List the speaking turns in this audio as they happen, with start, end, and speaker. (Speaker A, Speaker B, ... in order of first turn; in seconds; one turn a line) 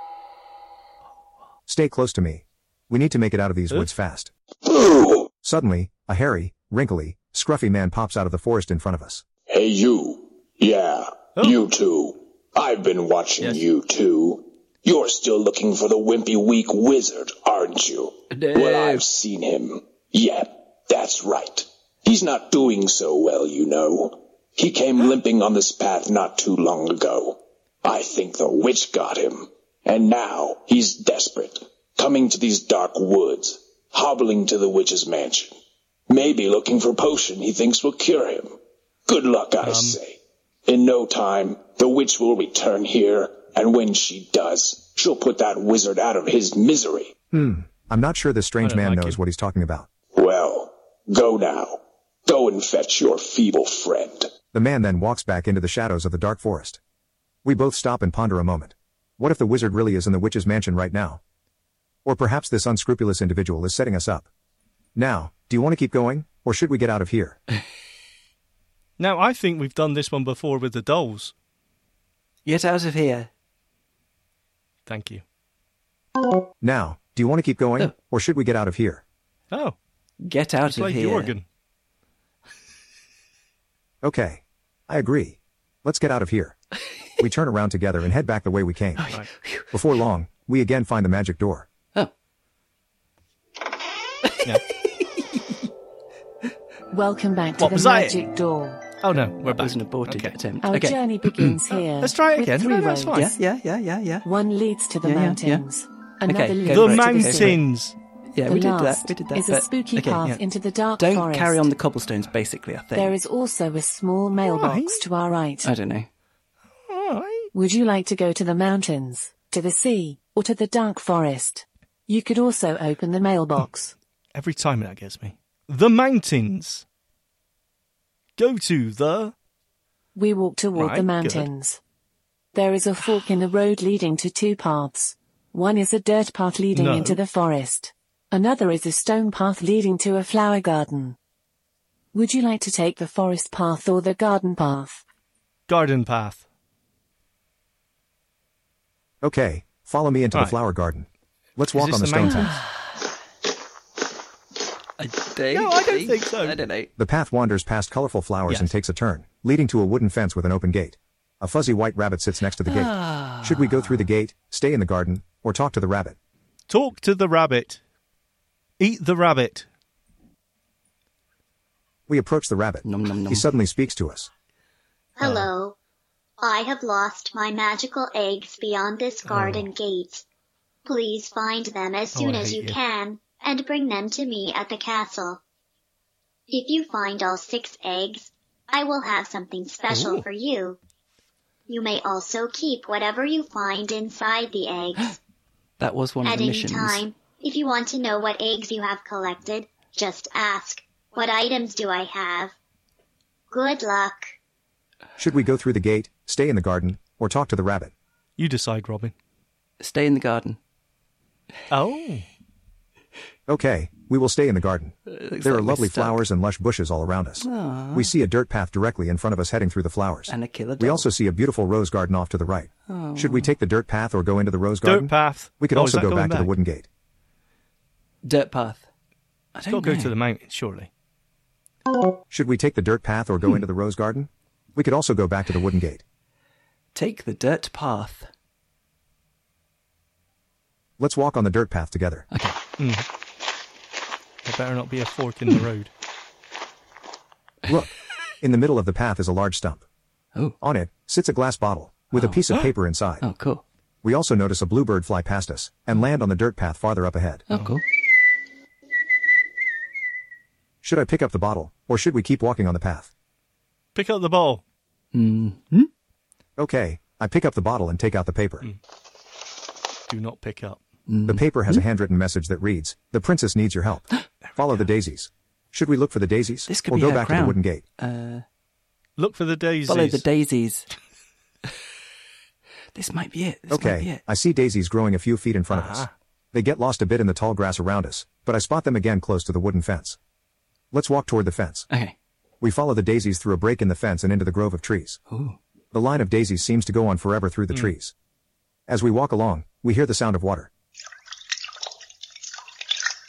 Speaker A: 1.7-4.3
Speaker B: 4.7-5.3
Speaker A: 5.4-9.2
Speaker B: 9.5-35.5
Speaker C: 18.3-19.0
Speaker B: 36.1-38.5
Speaker B: 39.1-47.1
Speaker D: 39.6-40.0
Speaker A: 47.3-49.9
Speaker D: 48.6-49.2
Speaker B: 50.1-54.3
Speaker A: 54.5-56.8
Speaker A: 57.4-61.2
Speaker A: 62.0-64.3
Speaker A: 64.9-67.4
Speaker D: 69.0-71.3
Speaker C: 72.5-73.3
Speaker D: 74.9-75.2
Speaker A: 76.6-79.0
Speaker D: 79.5-79.8
Speaker C: 80.2-81.3
Speaker D: 80.7-81.4
Speaker A: 84.0-86.6
Speaker A: 87.2-89.1
Speaker C: 89.0-89.7
Speaker A: 89.7-91.7
Speaker C: 94.2-95.5
Speaker E: 96.9-98.8
Speaker D: 97.6-98.2
Speaker D: 99.0-100.4
Speaker C: 99.6-101.6
Speaker E: 100.6-103.3
Speaker D: 102.0-103.3
Speaker C: 103.1-104.3
Speaker E: 104.2-107.6
Speaker C: 105.0-105.7
Speaker C: 106.2-107.6
Speaker D: 106.7-108.0
Speaker C: 108.3-110.3
Speaker E: 108.5-111.7
Speaker C: 111.0-113.2
Speaker E: 112.9-115.7
Speaker D: 114.5-115.0
Speaker C: 115.6-116.1
Speaker D: 116.9-117.5
Speaker E: 117.5-123.9
Speaker D: 124.3-126.8
Speaker D: 128.4-129.3
Speaker E: 130.1-131.8
Speaker D: 130.8-131.5
Speaker E: 132.5-141.2
Speaker D: 136.7-137.2
Speaker E: 142.1-145.0
Speaker D: 145.7-146.4
Speaker A: 149.2-152.5
Speaker D: 151.7-152.6
Speaker C: 152.2-153.0
Speaker C: 155.0-156.9
Speaker D: 155.5-156.6
Speaker A: 157.0-166.2
Speaker C: 162.6-164.1
Speaker D: 166.7-167.8
Speaker D: 168.8-169.7
Speaker A: 172.1-174.3
Speaker C: 172.8-173.5
Speaker F: 175.2-175.8
Speaker D: 175.2-175.5
Speaker F: 176.4-180.2
Speaker D: 179.3-179.7
Speaker F: 180.8-185.4
Speaker D: 182.1-182.8
Speaker F: 186.5-190.8
Speaker D: 189.9-190.2
Speaker F: 191.7-195.2
Speaker C: 195.8-197.0
Speaker F: 196.2-202.5
Speaker F: 203.5-204.3
Speaker A: 205.2-207.9
Speaker D: 208.4-209.1
Speaker C: 209.8-210.6
Speaker D: 211.7-212.2
Speaker A: 213.5-226.9
Speaker C: 215.1-216.2
Speaker C: 217.4-218.1
Speaker C: 220.3-221.1
Speaker C: 222.9-223.5
Speaker D: 224.8-226.5
Speaker C: 228.2-228.9
Speaker C: 229.5-230.1
Speaker D: 229.7-230.9
Speaker A: 232.3-236.0
Speaker C: 236.9-238.3
Speaker A: 241.0-242.2
Speaker C: 242.3-242.6
Speaker D: 242.8-243.1
Speaker D: 244.4-245.9
Speaker A: 247.7-249.8
Speaker A: 250.6-253.2
Speaker C: 252.1-252.7
Speaker C: 253.2-253.6
Speaker A: 254.0-257.4
Speaker C: 257.5-257.8
Speaker A: 260.8-263.1
Speaker D: 263.9-264.6
Speaker C: 265.1-265.9
Speaker A: 266.6-268.7
Speaker D: 270.1-270.8
Speaker C: 271.1-271.8
Speaker A: 271.3-277.8
Speaker C: 276.7-278.4
Speaker D: 279.2-280.2
Speaker C: 279.9-280.9
Speaker C: 282.9-284.2
Speaker A: 283.7-290.2
Speaker D: 285.7-286.1
Speaker A: 290.9-291.9
Speaker C: 291.9-292.1
Speaker A: 292.6-295.2
Speaker C: 295.3-295.6
Speaker A: 295.9-298.1
Speaker A: 298.9-300.7